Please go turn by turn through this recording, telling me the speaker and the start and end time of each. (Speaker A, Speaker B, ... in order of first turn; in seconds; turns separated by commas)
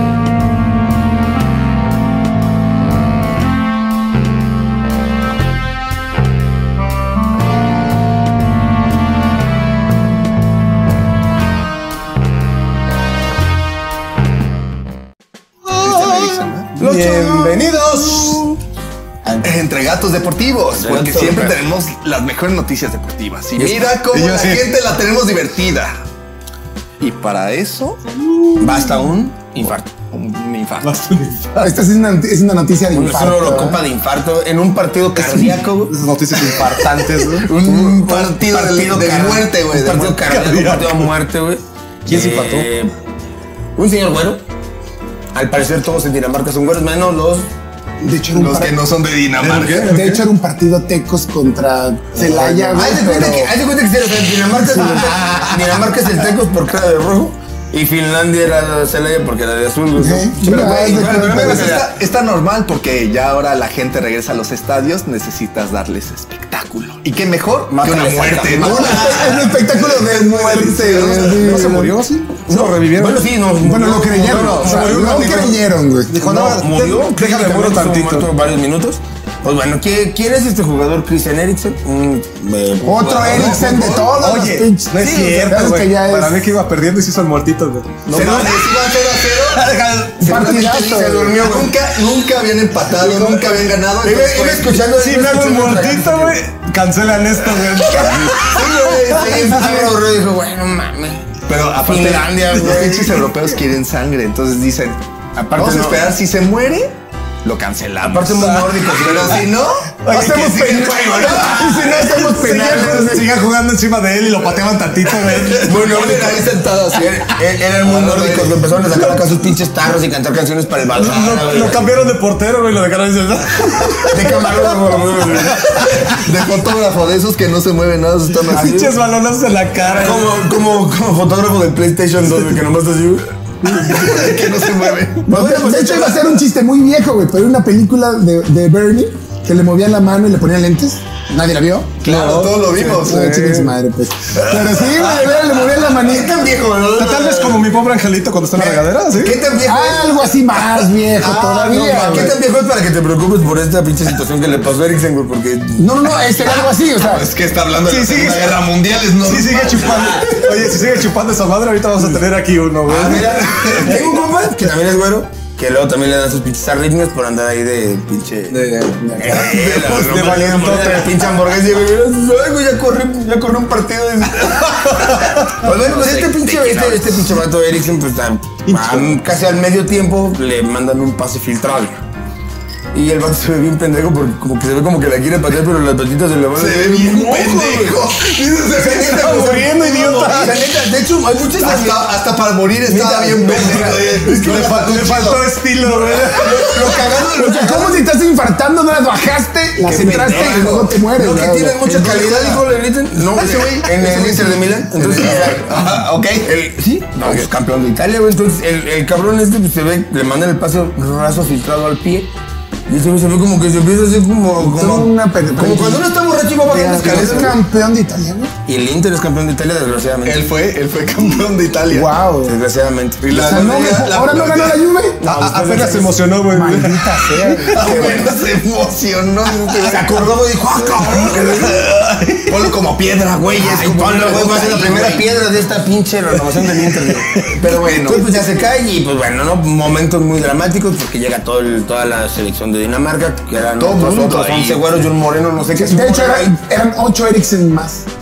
Speaker A: 15.7-16.7, Speaker B: 15.8-17.6, Speaker C: 16.8-18.6, Speaker A: 19.4-26.0, Speaker B: 20.8-21.7, Speaker B: 23.6-24.0, Speaker C: 24.1-24.7, Speaker A: 27.0-28.0, Speaker B: 28.6-30.1, Speaker A: 30.1-30.9, Speaker C: 30.8-31.7, Speaker D: 31.6-33.8, Speaker B: 32.9-36.0, Speaker C: 35.2-37.5, Speaker B: 37.4-42.9, Speaker A: 37.6-40.2, Speaker C: 40.2-41.1, Speaker C: 42.1-42.7, Speaker B: 43.8-44.4, Speaker B: 45.3-47.5, Speaker D: 48.0-48.8, Speaker A: 48.3-50.1, Speaker C: 49.4-50.2, Speaker D: 49.7-53.5, Speaker B: 52.2-61.9, Speaker D: 54.5-55.2, Speaker D: 60.0-61.8, Speaker A: 61.0-70.3, Speaker B: 67.7-69.4, Speaker D: 68.5-71.9, Speaker C: 70.0-73.3, Speaker A: 70.9-71.7, Speaker B: 72.5-75.5, Speaker D: 73.6-76.2, Speaker A: 74.4-75.6, Speaker C: 74.4-75.5, Speaker C: 76.1-78.3, Speaker B: 76.2-84.0, Speaker D: 82.8-86.4, Speaker A: 83.0-84.1, Speaker C: 84.0-90.3, Speaker A: 88.1-89.6, Speaker B: 88.1-88.5, Speaker D: 90.2-91.4, Speaker A: 90.2-94.8, Speaker B: 90.3-91.8, Speaker C: 93.0-93.5, Speaker B: 94.0-96.4, Speaker C: 94.9-99.4, Speaker A: 97.8-100.0, Speaker B: 97.9-103.3, Speaker A: 101.5-105.0, Speaker B: 105.4-106.1, Speaker A: 105.5-106.9, Speaker A: 107.4-112.2, Speaker B: 108.0-109.5, Speaker C: 110.0-116.0, Speaker D: 110.1-113.3, Speaker A: 115.3-118.6, Speaker B: 115.6-122.0, Speaker C: 121.0-124.8, Speaker B: 124.0-125.9, Speaker C: 125.3-126.2, Speaker A: 125.8-128.9, Speaker C: 128.4-130.5, Speaker B: 128.5-128.9, Speaker B: 129.9-134.1, Speaker A: 133.7-135.5, Speaker D: 135.3-142.0, Speaker B: 135.3-136.2, Speaker A: 142.0-143.3, Speaker C: 142.1-142.8, Speaker D: 142.8-146.4, Speaker C: 143.3-143.7, Speaker A: 144.8-145.6, Speaker B: 145.9-147.7, Speaker C: 146.9-149.4, Speaker A: 148.6-150.0, Speaker B: 149.2-150.1, Speaker D: 149.6-152.4, Speaker A: 151.2-152.4, Speaker B: 151.6-155.9, Speaker D: 155.8-157.3, Speaker A: 156.3-160.3, Speaker C: 157.8-158.6, Speaker C: 159.2-164.0, Speaker B: 162.9-168.7, Speaker C: 168.5-171.2, Speaker D: 169.0-169.5, Speaker B: 169.2-182.0, Speaker C: 175.1-175.4, Speaker A: 175.8-177.2, Speaker C: 178.7-179.2, Speaker B: 182.9-188.0, Speaker A: 186.6-198.0, Speaker C: 188.6-190.6, Speaker B: 189.2-192.1, Speaker B: 192.8-194.3, Speaker C: 194.3-197.2, Speaker D: 197.3-201.8, Speaker B: 197.4-197.9, Speaker A: 199.8-200.9, Speaker B: 199.9-212.3, Speaker A: 201.8-206.5, Speaker A: 207.2-207.5, Speaker B: 212.9-217.6, Speaker D: 214.6-216.1, Speaker D: 216.7-218.5, Speaker C: 216.8-217.5, Speaker B: 218.7-220.5, Speaker A: 220.2-222.1, Speaker D: 221.9-222.6, Speaker B: 222.4-223.3, Speaker A: 223.2-225.8, Speaker D: 223.3-225.3, Speaker C: 225.2-227.9, Speaker B: 225.3-226.0, Speaker D: 226.5-228.3, Speaker A: 227.7-230.3, Speaker B: 227.8-228.3, Speaker B: 229.8-232.0, Speaker A: 231.2-235.3, Speaker B: 233.5-246.6, Speaker A: 237.4-238.3, Speaker A: 243.8-244.8, Speaker D: 245.8-248.1